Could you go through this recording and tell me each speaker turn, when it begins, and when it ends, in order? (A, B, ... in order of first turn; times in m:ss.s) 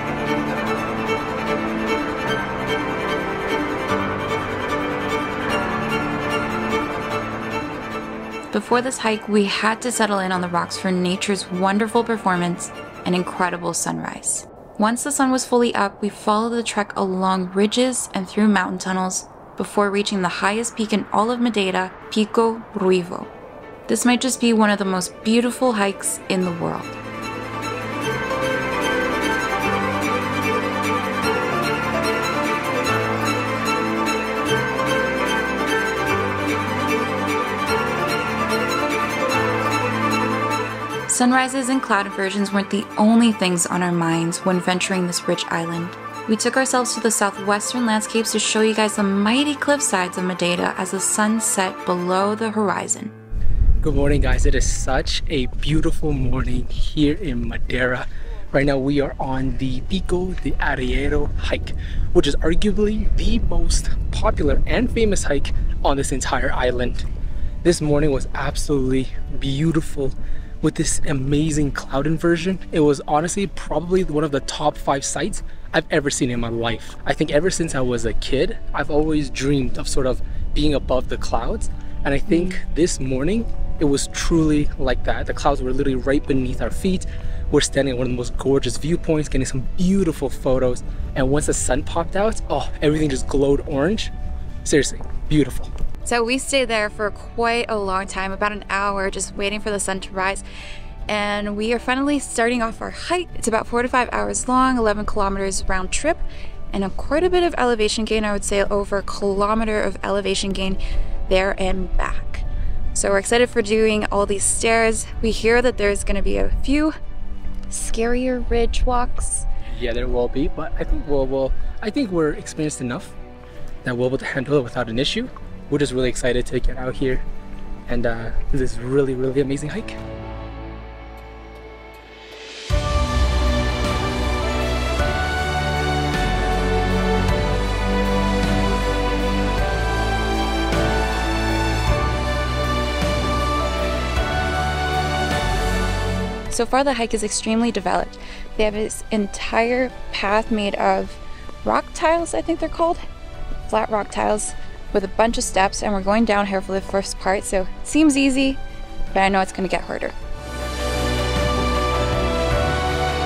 0:08.5-0:23.3 A
0:23.9-0:27.0 A
0:41.1-0:53.1 A
0:53.8-1:07.0 B
1:07.6-1:34.1 B
1:22.3-1:22.6 A
1:34.6-1:35.7 B
1:36.0-1:40.4 A
1:41.1-1:56.9 A
1:57.7-1:59.5 A
1:59.7-2:03.2 B
2:03.8-2:07.2 B
2:07.9-2:10.0 B
2:26.5-2:33.0 A
2:33.7-2:38.6 A
2:39.1-2:40.1 A